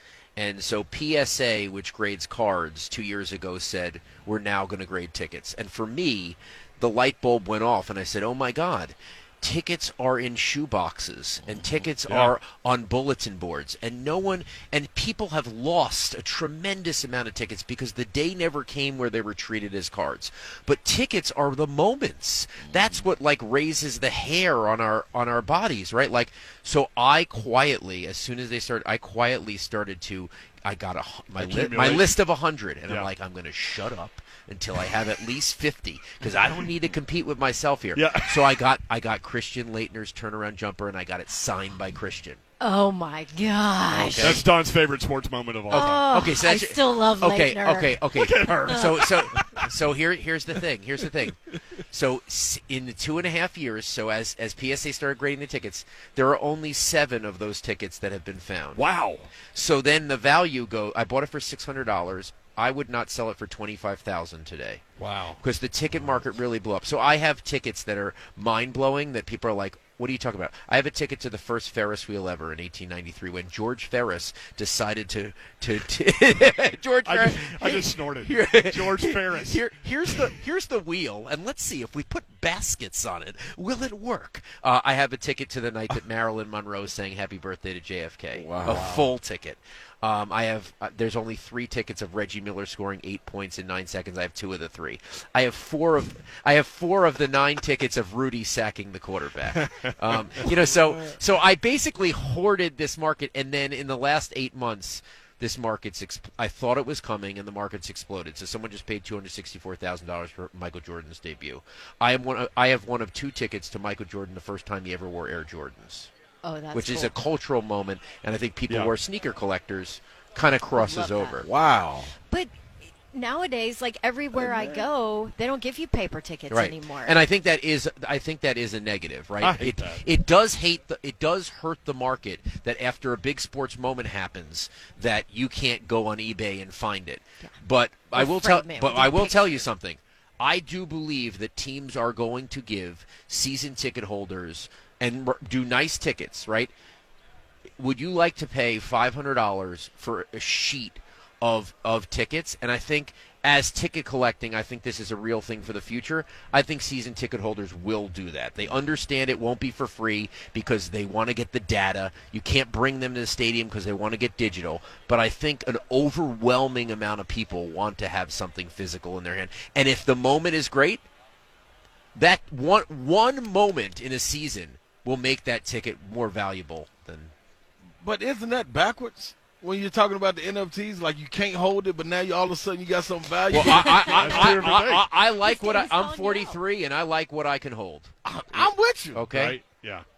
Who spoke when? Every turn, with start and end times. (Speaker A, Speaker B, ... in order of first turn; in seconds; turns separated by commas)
Speaker A: 0.4-42.4, Speaker B: 12.1-12.3, Speaker C: 22.6-23.0, Speaker B: 31.4-32.1, Speaker B: 38.0-38.5, Speaker D: 42.6-44.4, Speaker A: 43.9-44.4, Speaker B: 44.0-46.1, Speaker A: 45.7-58.8, Speaker D: 45.7-48.0, Speaker B: 48.1-49.7, Speaker B: 58.8-59.3, Speaker A: 59.5-64.8, Speaker B: 65.0-65.4, Speaker A: 65.4-116.1, Speaker B: 77.0-79.6, Speaker C: 88.3-89.1, Speaker D: 116.4-117.1, Speaker A: 116.7-121.5, Speaker D: 120.7-121.5, Speaker C: 121.5-122.1, Speaker D: 122.3-122.5, Speaker D: 123.1-127.2, Speaker C: 124.3-124.8, Speaker A: 126.5-146.7, Speaker B: 129.4-130.0, Speaker D: 138.1-139.6, Speaker A: 147.8-171.0, Speaker A: 172.2-177.3, Speaker C: 178.0-184.4, Speaker A: 183.5-189.6, Speaker B: 183.5-185.1, Speaker D: 185.3-186.6, Speaker C: 188.2-189.2, Speaker B: 189.3-190.1